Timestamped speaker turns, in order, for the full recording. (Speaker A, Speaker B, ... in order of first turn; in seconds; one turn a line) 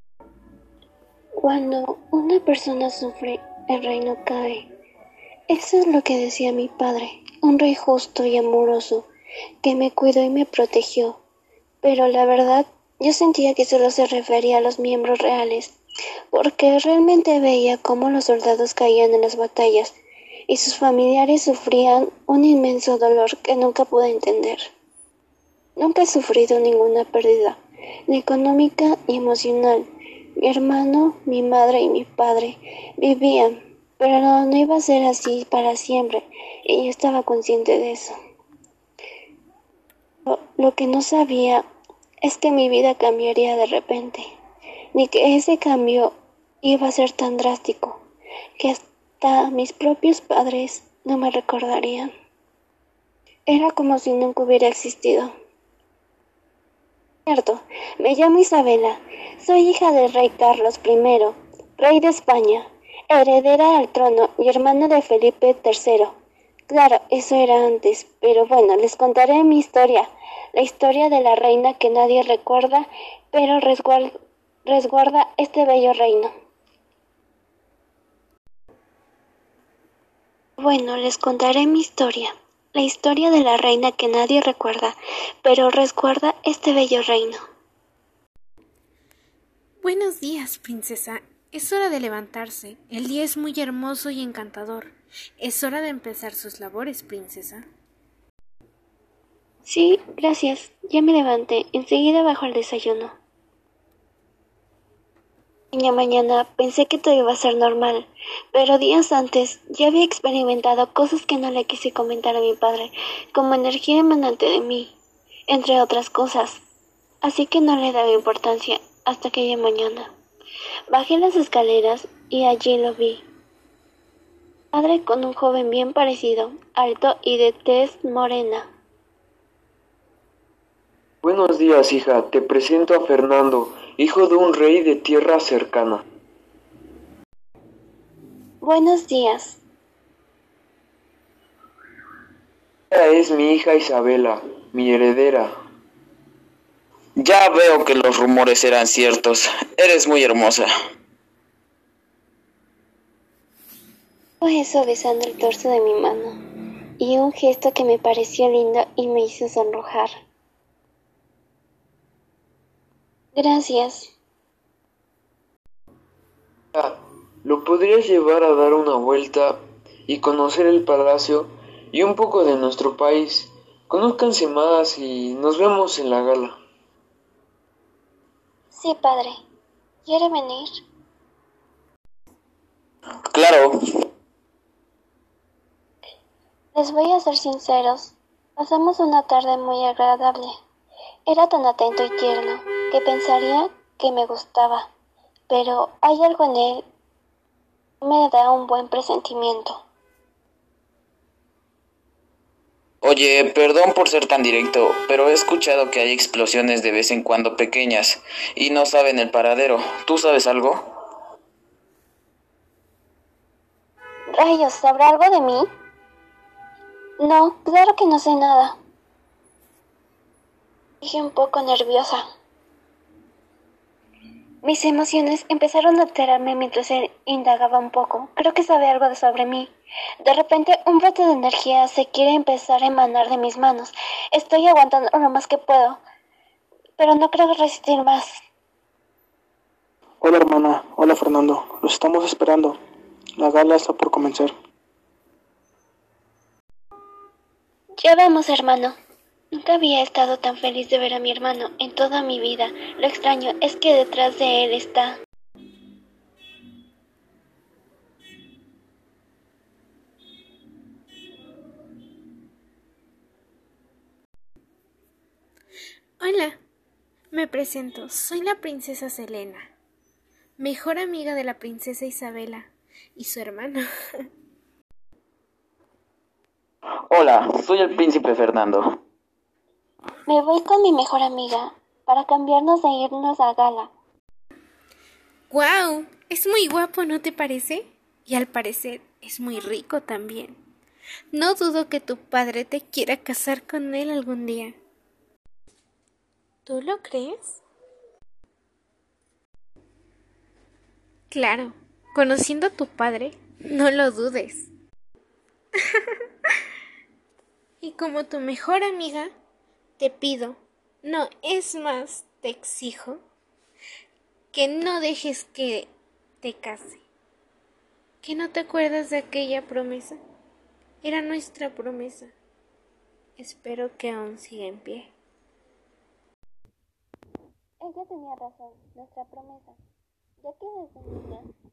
Speaker A: 1.4-4.7
Speaker A: 5.5-9.1
Speaker A: 9.6-11.2
Speaker A: 11.8-15.8
Speaker A: 16.3-20.0
Speaker A: 20.5-24.7
Speaker A: 25.8-29.9
Speaker A: 30.4-38.1
Speaker A: 40.2-41.7
Speaker A: 42.2-44.3
Speaker A: 45.0-48.0
Speaker A: 48.6-52.1
Speaker A: 53.5-55.3
Speaker A: 57.3-66.2
Speaker A: 66.7-74.1
Speaker A: 74.7-76.3
Speaker A: 80.6-87.4
Speaker B: 89.8-97.7
Speaker A: 99.7-103.2
Speaker A: 105.7-115.0
Speaker A: 115.5-116.6
Speaker A: 117.2-120.1
Speaker A: 120.9-123.2
Speaker A: 124.7-128.7
Speaker C: 131.2-136.0
Speaker A: 138.6-139.6
Speaker C: 142.9-145.5
Speaker D: 147.2-150.7
Speaker A: 154.4-156.4
Speaker A: 157.0-160.1
Speaker A: 163.3-164.1
Speaker C: 166.7-176.6
Speaker A: 178.7-179.4
Speaker A: 180.1-180.8
Speaker D: 183.3-183.8
Speaker A: 186.7-190.6
Speaker A: 191.3-194.9
Speaker A: 195.5-196.8
Speaker A: 198.0-199.8
Speaker D: 203.0-210.9
Speaker A: 214.3-215.7
Speaker A: 217.2-218.8
Speaker A: 221.0-222.2
Speaker A: 224.6-229.7
Speaker A: 230.2-236.0
Speaker A: 237.0-238.4
Speaker E: 240.2-242.8
Speaker E: 243.4-244.5
Speaker A: 248.0-249.0
Speaker A: 249.5-255.2
Speaker B: 266.2-266.6
Speaker B: 267.3-269.7
Speaker B: 270.6-273.9
Speaker D: 277.1-279.0
Speaker A: 280.3-283.9
Speaker B: 285.5-290.6
Speaker B: 291.3-294.8
Speaker B: 296.7-297.6
Speaker B: 301.3-304.7
Speaker B: 307.8-309.3
Speaker B: 310.0-313.2
Speaker B: 314.5-315.9
Speaker B: 316.4-317.0
Speaker B: 318.2-320.2
Speaker B: 321.0-322.3
Speaker B: 323.4-325.1
Speaker A: 327.8-329.8
Speaker A: 330.4-331.5